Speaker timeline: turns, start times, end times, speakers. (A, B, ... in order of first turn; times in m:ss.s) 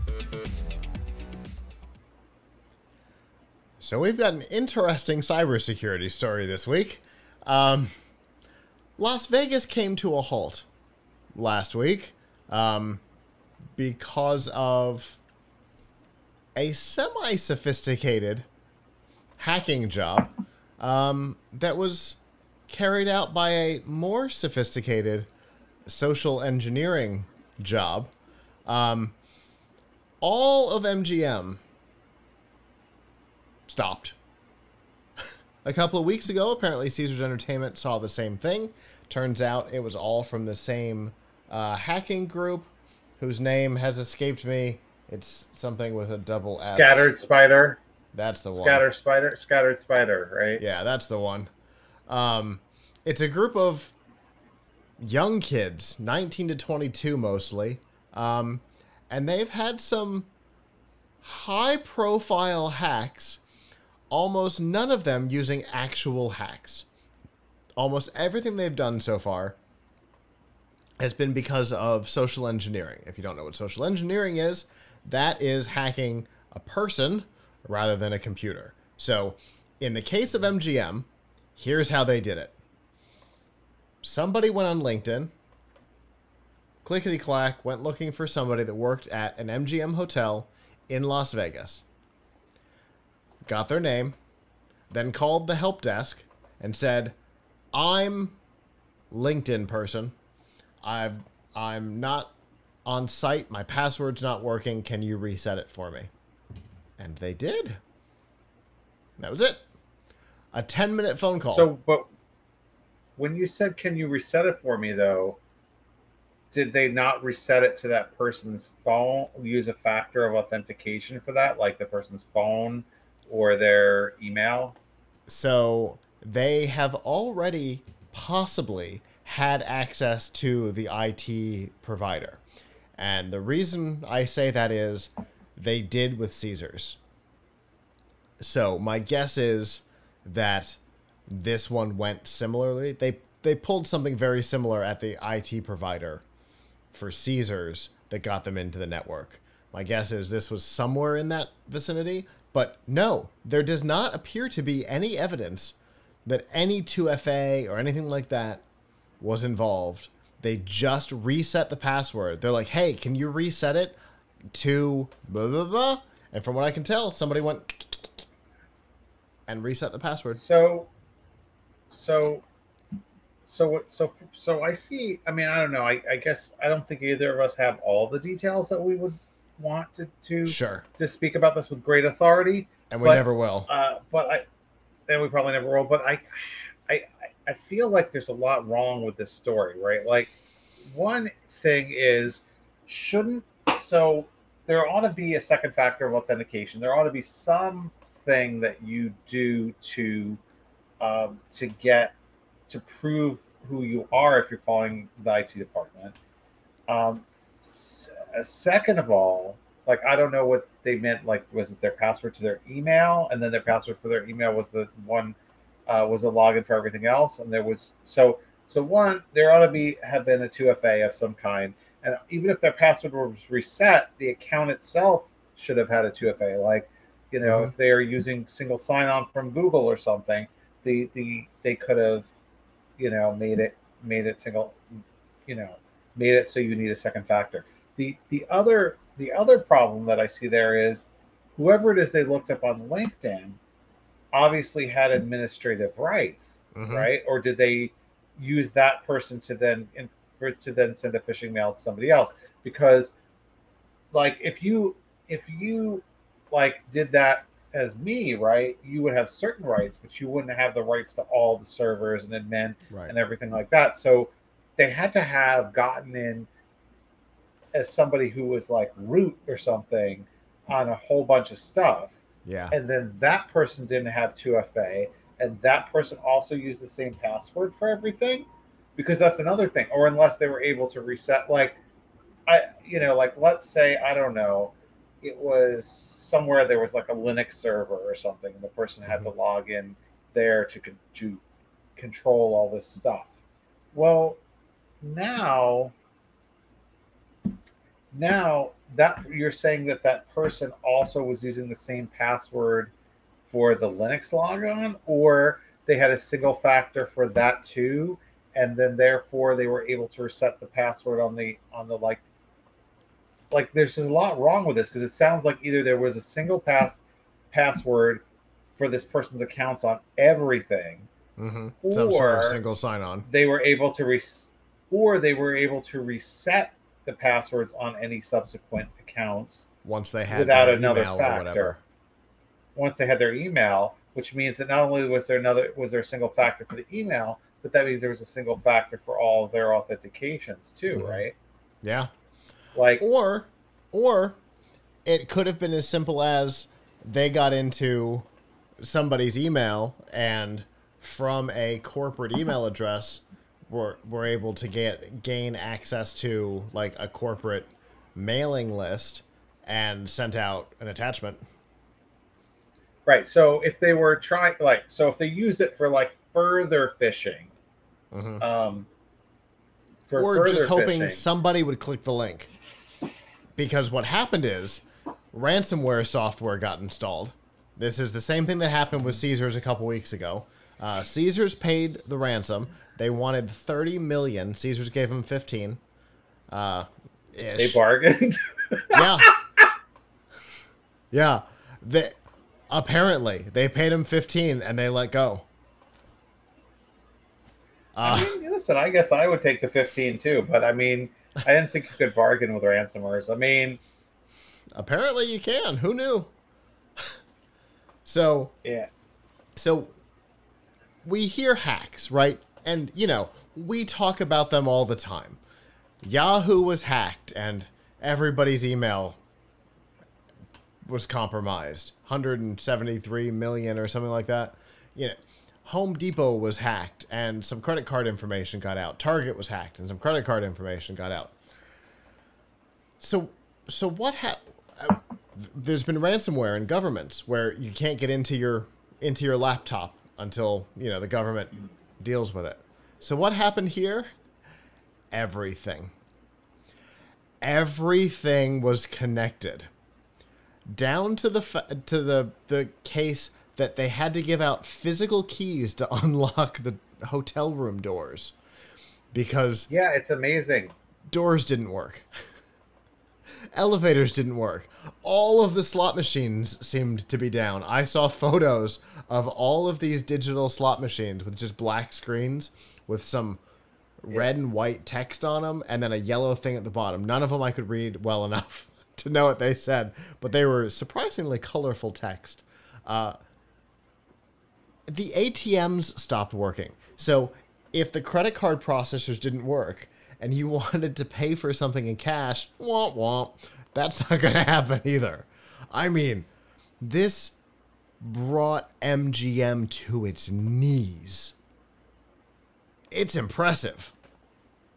0:03.8-0:07.9 A
0:09.0-0:10.7 A
0:11.3-0:13.0 A
0:13.8-0:15.2 A
0:16.6-0:18.5 A
0:19.4-0:25.3 A
0:25.9-0:28.1 A
0:28.7-0:29.2 A
0:30.2-0:31.6 A
0:33.7-0:34.2 A
0:35.6-0:47.1 A
0:46.6-0:47.8 B
0:48.1-0:48.8 A
0:48.5-0:50.6 B
0:50.6-0:51.5 A
0:52.1-0:53.9 A
0:55.0-1:00.3 A
1:01.2-1:03.4 A
1:04.1-1:06.9 A
1:07.8-1:09.6 A
1:11.0-1:22.6 A
1:24.0-1:25.3 A
1:26.8-1:31.8 A
1:33.4-1:34.2 A
1:34.9-1:37.2 A
1:37.7-1:38.4 A
1:39.1-1:40.2 A
1:40.8-1:42.3 A
1:42.8-1:46.1 A
1:47.0-1:47.8 A
1:49.2-1:49.6 A
1:50.5-1:51.7 A
1:51.5-1:52.1 B
1:53.2-1:55.4 B
1:56.5-2:04.8 B
2:05.3-2:12.4 A
2:13.0-2:17.0 A
2:18.4-2:26.2 A
2:26.9-2:38.6 A
2:39.2-2:44.0 A
2:44.5-2:48.1 A
2:49.5-2:50.4 A
2:50.3-2:50.9 B
2:51.9-2:52.4 B
2:53.4-3:04.4 B
3:00.5-3:00.9 A
3:02.9-3:03.7 A
3:05.1-3:10.3 B
3:10.9-3:20.4 B
3:21.0-3:22.1 B
3:22.7-3:26.2 B
3:26.9-3:35.4 B
3:35.9-3:52.3 B
3:47.4-3:47.7 A
3:53.0-3:54.8 B
3:55.5-4:03.6 B
4:04.3-4:13.1 B
4:06.8-4:07.1 A
4:14.1-4:26.5 B
4:27.7-4:32.2 B
4:32.4-4:32.7 A
4:32.7-4:41.8 B
4:42.5-4:51.4 B
4:52.0-4:53.3 B
4:53.9-4:54.4 B
4:55.0-4:55.9 B
4:58.1-5:02.9 B
5:03.5-5:12.2 B
5:13.5-5:17.0 B
5:17.5-5:18.2 B
5:18.8-5:21.1 B
5:21.4-5:23.3 A
5:21.8-5:22.6 B
5:23.3-5:29.7 B
5:29.8-5:31.8 A
5:30.3-5:31.8 B
5:32.8-5:41.4 B
5:40.9-5:41.2 A
5:41.8-5:42.1 A
5:42.8-5:43.0 B
5:43.0-5:44.4 A
5:45.0-5:48.3 A
5:48.8-6:01.4 A
6:03.1-6:07.5 B
6:08.1-6:08.4 A
6:08.4-6:08.9 B
6:10.1-6:11.2 B
6:10.2-6:12.5 A
6:13.6-6:25.8 A
6:26.5-6:27.8 A
6:27.6-6:29.7 B
6:28.9-6:29.3 A
6:31.1-6:32.2 A
6:32.7-6:35.5 A
6:38.0-6:38.4 A
6:38.0-6:43.8 B
6:44.8-6:46.3 A
6:48.1-6:48.6 A
6:48.6-6:48.9 B
6:49.6-6:49.9 A
6:51.0-6:55.4 A
6:56.0-6:59.2 A
7:00.9-7:11.3 A
7:13.0-7:24.1 A
7:25.1-7:25.9 A
7:27.4-7:29.7 A
7:30.7-7:38.4 A
7:39.1-7:39.7 A
7:39.7-7:40.8 B
7:41.1-7:42.1 A
7:43.5-7:53.4 A
7:54.0-8:03.2 A
8:04.9-8:16.3 A
8:16.8-8:17.4 A
8:18.0-8:21.4 A
8:22.9-8:23.9 A